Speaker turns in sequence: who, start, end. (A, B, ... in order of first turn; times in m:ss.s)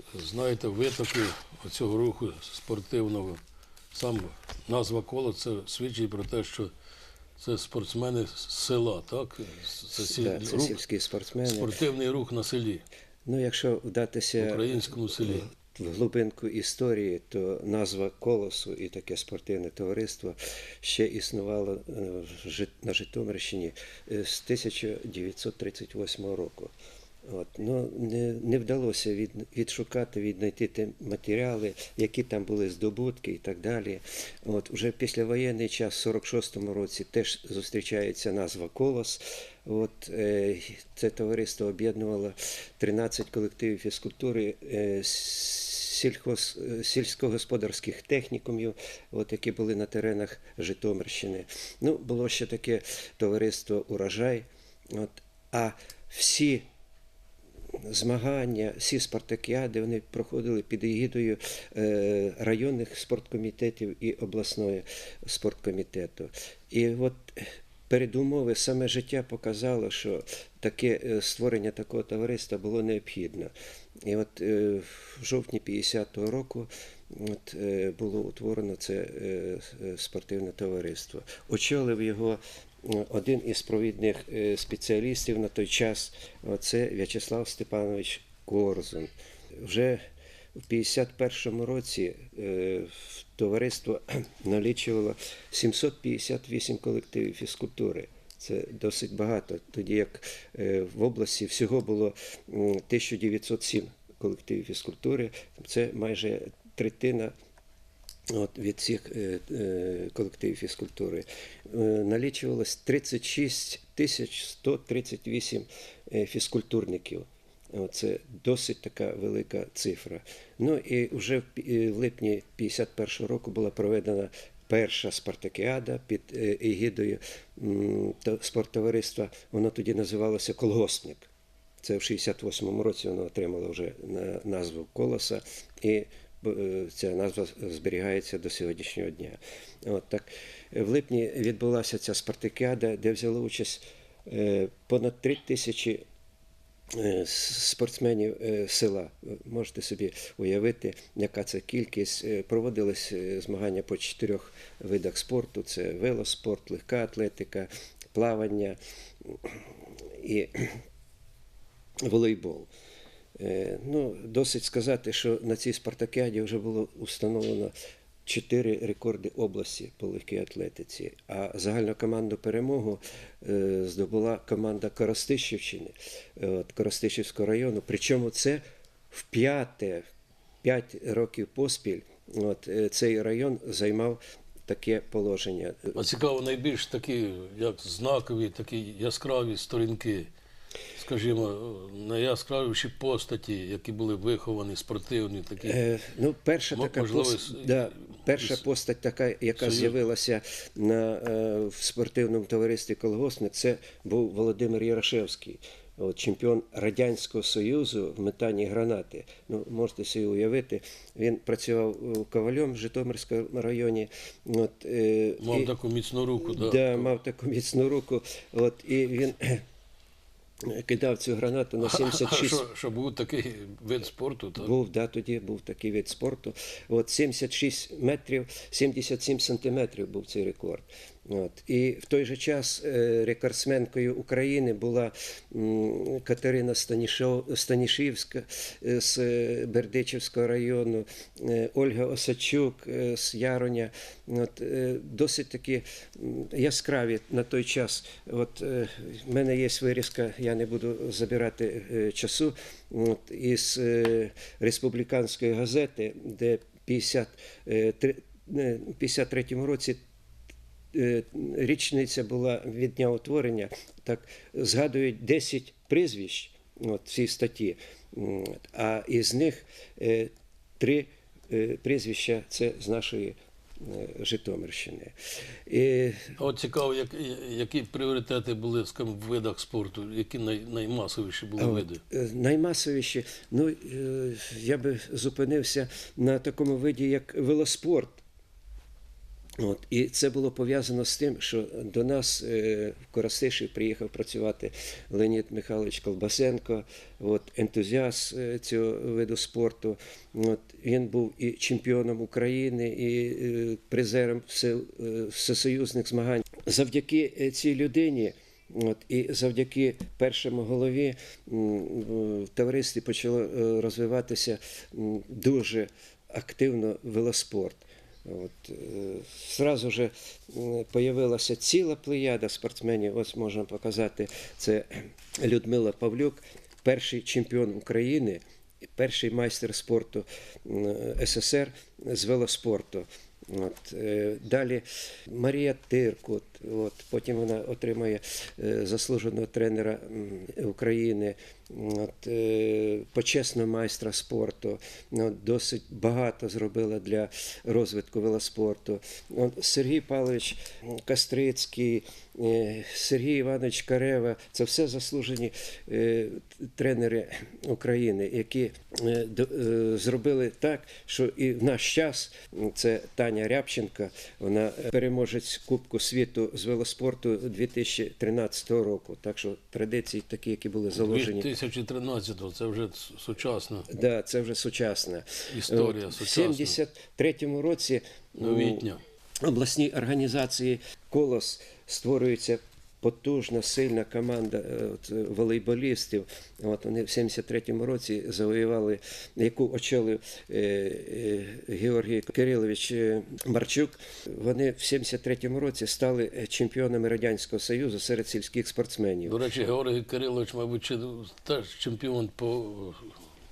0:00.1-0:03.4 A
0:03.9-0:06.7 A
0:07.4-0:10.8 A
0:09.9-0:11.8 B
0:11.4-0:12.8 A
0:13.2-0:26.7 B
0:14.4-0:15.4 A
0:27.2-0:56.6 B
0:57.7-1:30.0 B
1:30.7-1:47.3 B
1:48.3-2:11.3 B
2:11.8-2:26.0 B
2:26.9-2:40.8 B
2:42.0-2:42.7 B
2:43.4-2:47.7 B
2:48.2-3:00.1 B
3:00.6-3:06.0 B
3:05.9-3:10.3 A
3:10.9-3:15.8 A
3:15.6-3:35.7 B
3:16.7-3:18.5 A
3:19.6-3:19.9 A
3:35.4-3:37.1 A
3:36.4-3:39.6 B
3:40.6-3:42.6 B
3:41.8-3:44.7 A
3:44.6-4:20.0 B
4:20.9-4:35.1 B
4:35.7-4:36.3 B
4:36.4-4:42.0 A
4:41.6-4:48.2 B
4:49.6-6:11.5 B
6:10.9-6:13.9 A
6:13.9-6:18.9 B
6:15.5-6:16.8 A
6:18.4-6:19.0 A
6:19.4-6:39.4 B
6:39.2-6:43.2 A